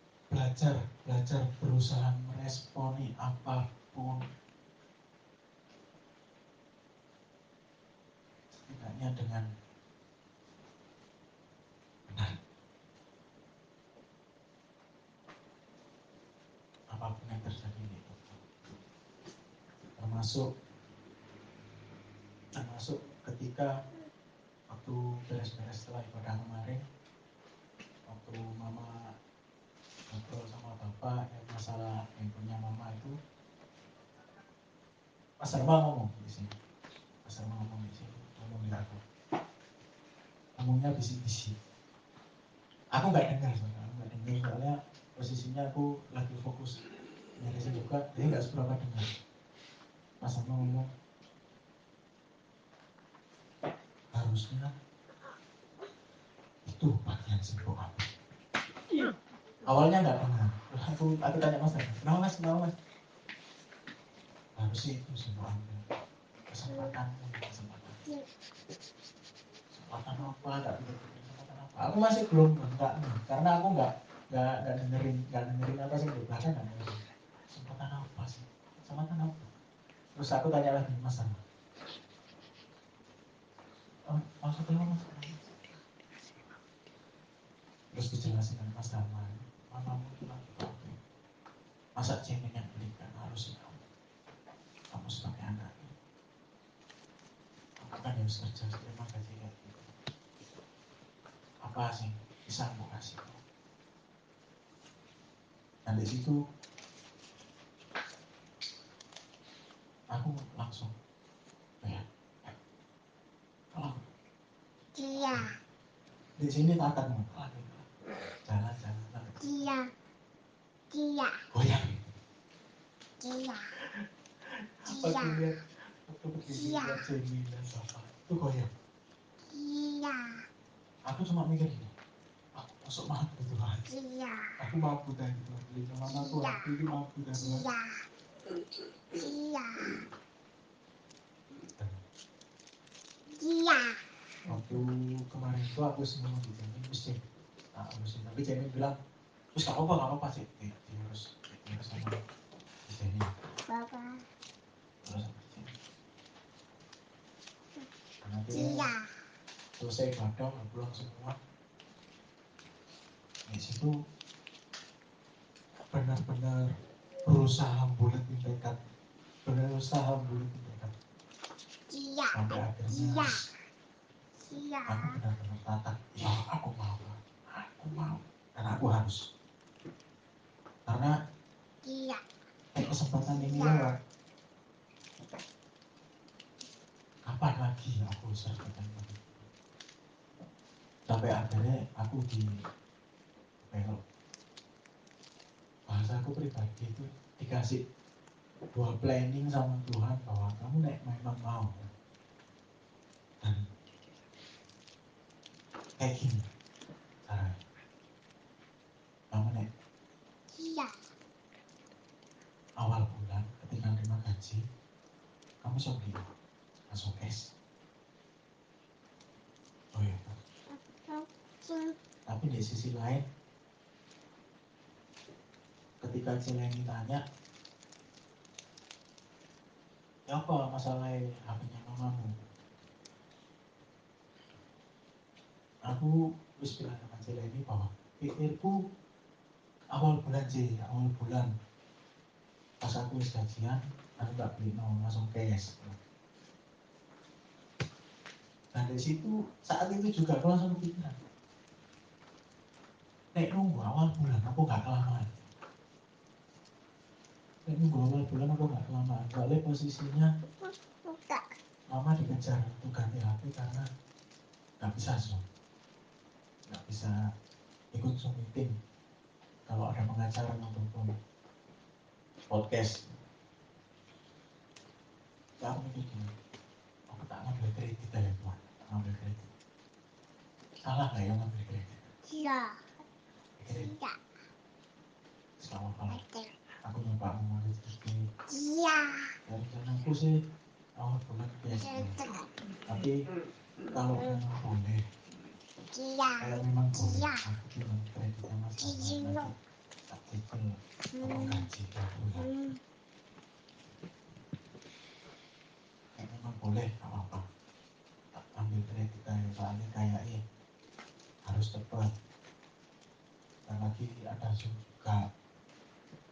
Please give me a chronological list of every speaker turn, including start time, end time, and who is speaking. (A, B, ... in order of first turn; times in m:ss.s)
0:00.3-0:04.2 A
0:08.6-0:09.4 A
0:12.1-0:12.3 A
0:16.9-0:18.4 A
0:20.0-0:20.5 A
0:22.5-0:23.8 A
0:24.7-0:26.8 A
0:28.1-0:29.1 A
0:30.1-0:33.2 A
0:35.4-0:36.6 A
0:37.2-0:39.0 A
0:40.6-0:41.5 A
0:42.9-0:46.8 A
0:47.4-0:49.1 A
0:50.2-0:50.9 A
0:54.1-0:54.7 A
0:56.6-0:58.1 A
0:59.6-1:02.7 A
1:04.6-1:05.8 A
1:06.5-1:08.0 A
1:09.7-1:19.5 A
1:20.2-1:21.4 A
1:24.1-1:25.5 A
1:27.9-1:31.0 A
1:32.0-1:33.8 A
1:34.9-1:36.0 A
1:37.8-1:39.9 A
1:41.6-1:43.4 A
1:45.8-1:46.4 A
1:50.1-1:50.9 A
1:51.8-1:52.5 A
1:53.7-1:54.0 A
1:54.9-1:55.5 B
1:56.4-1:57.9 A
1:58.4-1:59.7 A
1:59.4-1:59.9 B
2:00.9-2:01.4 B
2:01.5-2:02.1 A
2:03.2-2:03.7 B
2:04.8-2:08.7 A
2:04.8-2:05.4 B
2:06.5-2:07.0 B
2:09.4-2:10.4 B
2:11.1-2:11.9 A
2:12.6-2:13.8 A
2:13.9-2:14.6 B
2:14.6-2:17.6 A
2:16.1-2:16.6 B
2:17.3-2:18.0 B
2:19.1-2:20.0 B
2:21.7-2:22.0 A
2:23.3-2:24.0 B
2:24.5-2:27.2 A
2:27.7-2:29.0 A
2:29.5-2:32.2 A
2:32.9-2:33.3 A
2:33.7-2:34.2 B
2:35.0-2:35.8 A
2:38.2-2:38.9 A
2:38.5-2:39.0 B
2:39.8-2:41.4 A
2:43.5-2:43.9 A
2:45.9-2:46.6 A
2:47.2-2:48.8 A
2:49.4-2:50.9 A
2:51.9-2:53.4 B
2:52.3-2:53.4 A
2:54.4-2:55.1 B
2:54.8-2:59.2 A
3:00.9-3:01.1 A
3:01.8-3:02.2 B
3:02.7-3:04.0 A
3:03.3-3:03.9 B
3:07.2-3:09.4 A
3:11.1-3:12.5 A
3:13.6-3:14.0 A
3:15.9-3:17.8 A
3:18.7-3:21.9 A
3:26.0-3:26.4 A
3:27.2-3:27.6 A
3:29.3-3:29.6 A
3:30.5-3:31.0 B
3:32.8-3:34.6 A
3:35.6-3:36.3 A
3:36.9-3:37.4 A
3:39.9-3:40.4 A
3:40.7-3:41.9 B
3:42.3-3:43.2 A
3:46.0-3:47.2 A
3:50.3-3:52.3 A
3:55.9-3:58.8 A
3:59.9-4:01.5 A
4:02.8-4:06.0 A
4:08.7-4:11.2 A
4:13.3-4:15.3 A
4:17.7-4:20.3 A
4:20.7-4:21.5 B
4:21.9-4:23.8 A
4:24.8-4:25.4 A
4:26.7-4:27.2 A
4:27.9-4:28.7 A
4:29.7-4:31.1 A
4:32.5-4:33.0 A
4:35.6-4:36.3 A
4:37.1-4:39.5 A
4:40.8-4:42.1 A
4:42.2-4:42.7 B
4:43.6-4:43.9 A
4:43.7-4:44.2 B
4:45.6-4:46.2 A
4:46.1-4:46.5 B
4:46.8-4:48.2 A
4:48.5-4:49.3 B
4:49.5-4:50.3 A
4:51.0-4:52.2 A
4:51.7-4:52.4 B
4:52.9-4:53.2 A
4:53.9-4:55.0 A
4:55.9-4:57.4 B
4:56.4-4:59.5 A
4:58.8-4:59.5 B
5:00.1-5:02.5 A
5:01.1-5:01.7 B
5:02.4-5:02.8 B
5:06.2-5:07.4 A
5:08.3-5:10.4 A
5:11.4-5:12.1 A
5:13.7-5:15.2 A